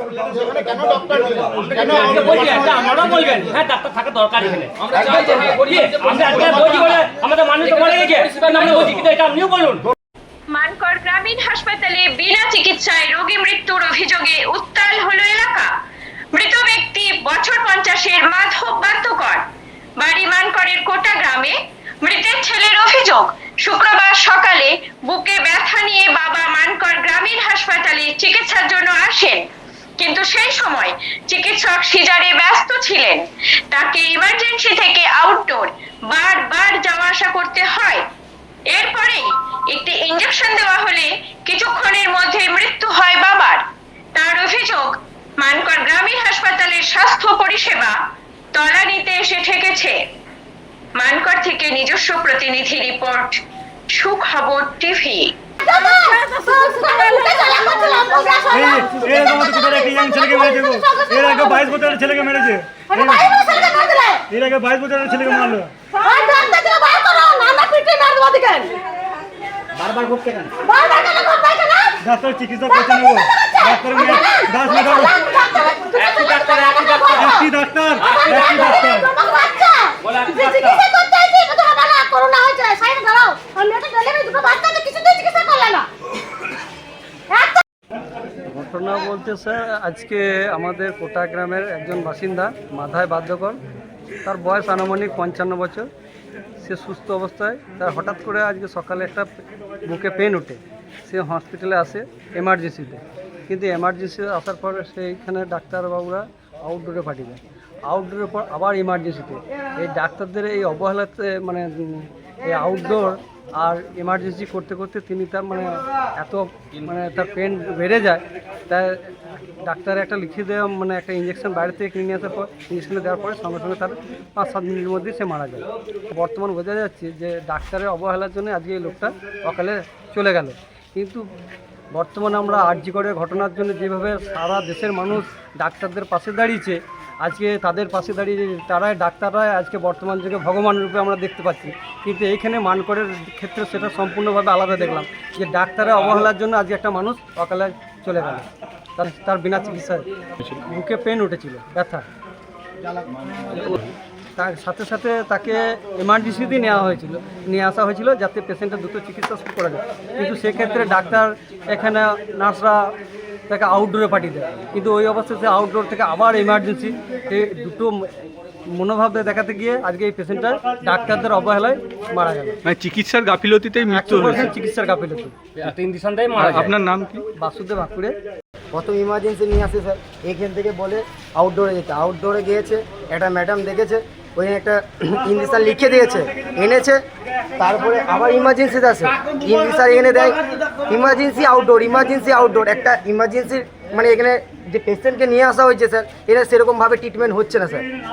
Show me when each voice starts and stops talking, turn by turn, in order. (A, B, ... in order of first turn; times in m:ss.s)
0:00.3-0:02.6 A
0:01.6-0:09.8 B
0:10.5-0:15.7 C
0:16.3-0:19.4 C
0:20.0-0:29.5 C
0:30.0-0:38.0 C
0:38.7-0:43.6 C
0:44.2-0:48.0 C
0:48.5-0:50.0 C
0:51.0-0:53.4 C
0:54.0-0:55.3 C
0:55.6-1:01.6 D
0:58.5-1:03.4 A
1:02.9-1:04.2 D
1:04.3-1:05.7 A
1:05.9-1:08.7 D
1:09.8-1:10.3 A
1:10.0-1:10.4 E
1:10.6-1:11.9 D
1:12.0-1:15.2 A
1:12.8-1:17.4 D
1:16.0-1:17.2 B
1:17.1-1:19.1 A
1:18.0-1:18.3 B
1:18.2-1:25.9 D
1:20.0-1:20.8 B
1:27.3-1:27.6 D
1:28.5-1:33.6 F
1:34.2-1:35.9 F
1:36.6-1:39.3 F
1:39.8-1:59.0 F
1:59.6-2:11.2 F
2:11.9-2:32.0 F
2:34.4-2:42.8 F
2:43.5-2:48.1 F
2:48.7-2:52.6 F
2:52.7-2:54.5 G
2:53.9-2:55.3 F
2:55.6-2:56.7 B
2:56.4-2:57.2 G
2:57.4-2:58.2 F
2:58.7-3:07.0 E
3:07.6-3:17.9 E